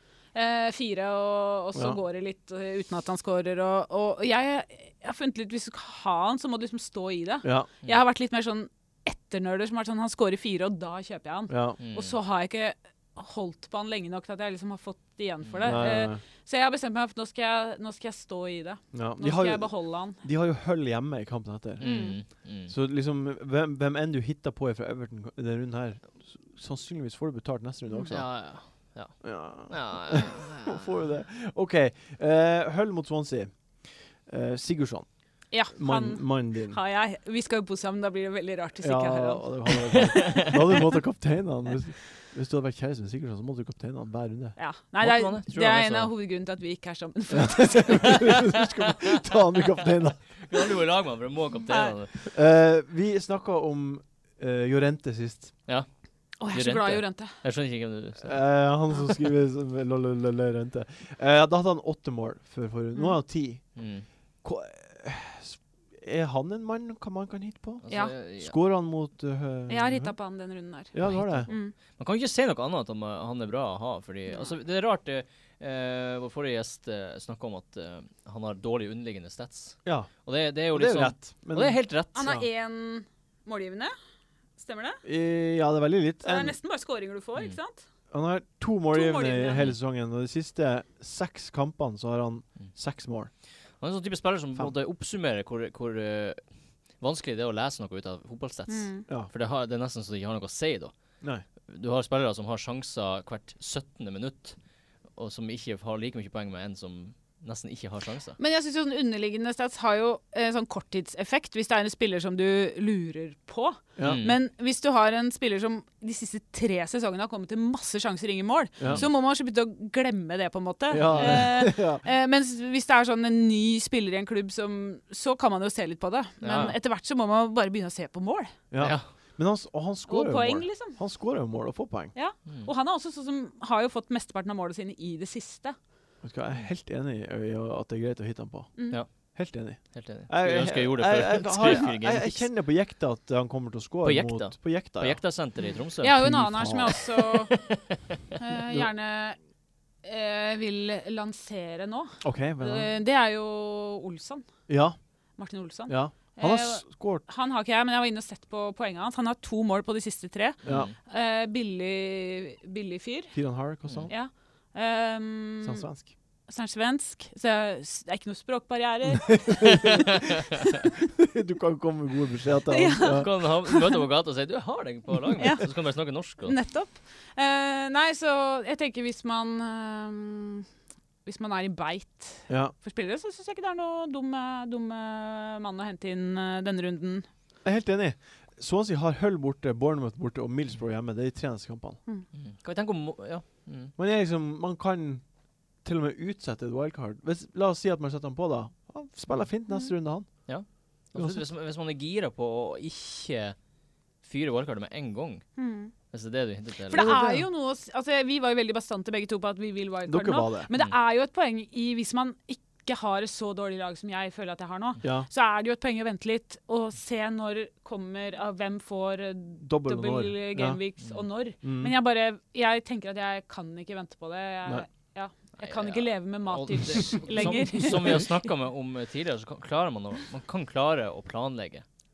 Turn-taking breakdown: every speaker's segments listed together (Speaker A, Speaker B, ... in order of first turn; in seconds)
Speaker A: 0.3-20.2, 21.8-22.2, 35.5-40.5, 44.6-48.3, 51.7-52.0, 56.4-57.4, 67.9-68.1, 69.7-71.7, 74.3-74.5, 82.1-83.9, 84.6-85.0, 86.2-87.9, 88.9-89.7, 98.7-99.0, 108.4-128.5, 130.1-131.0, 132.1-135.8, 146.0-147.6, 148.4-149.4, 150.0-154.5, 155.4-163.4, 164.1-165.9, 166.5-170.1, 172.7-173.9, 175.4-180.7, 181.2-187.3, 205.6-205.9, 206.9-228.5
Speaker B: 11.5-11.8, 15.6-16.2, 18.9-28.5, 29.2-36.8, 38.8-44.6, 47.3-50.4, 52.2-55.5, 58.2-63.8, 64.4-70.2, 70.9-71.5, 79.8-82.5, 85.0-86.5, 88.1-93.3, 118.8-119.1, 120.9-122.0, 128.7-132.1, 136.2-145.2, 146.1-147.0, 152.2-152.9, 154.7-155.0, 155.9-157.2, 160.6-160.9, 163.3-164.2, 165.6-166.1, 169.5-170.0, 171.2-173.3, 182.5-182.7, 187.6-192.0, 193.9-195.2, 195.8-200.5, 201.1-201.4, 206.9-207.5, 210.1-210.7, 215.0-215.3, 219.6-220.8, 221.6-221.9, 227.3-227.6
Speaker C: 11.8-12.1, 15.5-15.8, 21.8-22.7, 28.1-30.9, 39.9-40.6, 45.0-46.1, 50.4-52.2, 55.7-58.8, 63.8-64.1, 67.8-68.5, 71.0-82.3, 93.8-101.0, 101.7-104.6, 105.1-108.4, 114.0-114.4, 121.0-121.5, 126.4-126.7, 128.8-129.1, 138.9-142.5, 144.0-146.4, 146.9-147.9, 160.6-160.9, 173.0-176.6, 192.3-193.9, 200.5-203.6, 204.2-205.5, 206.1-207.2, 225.6-231.8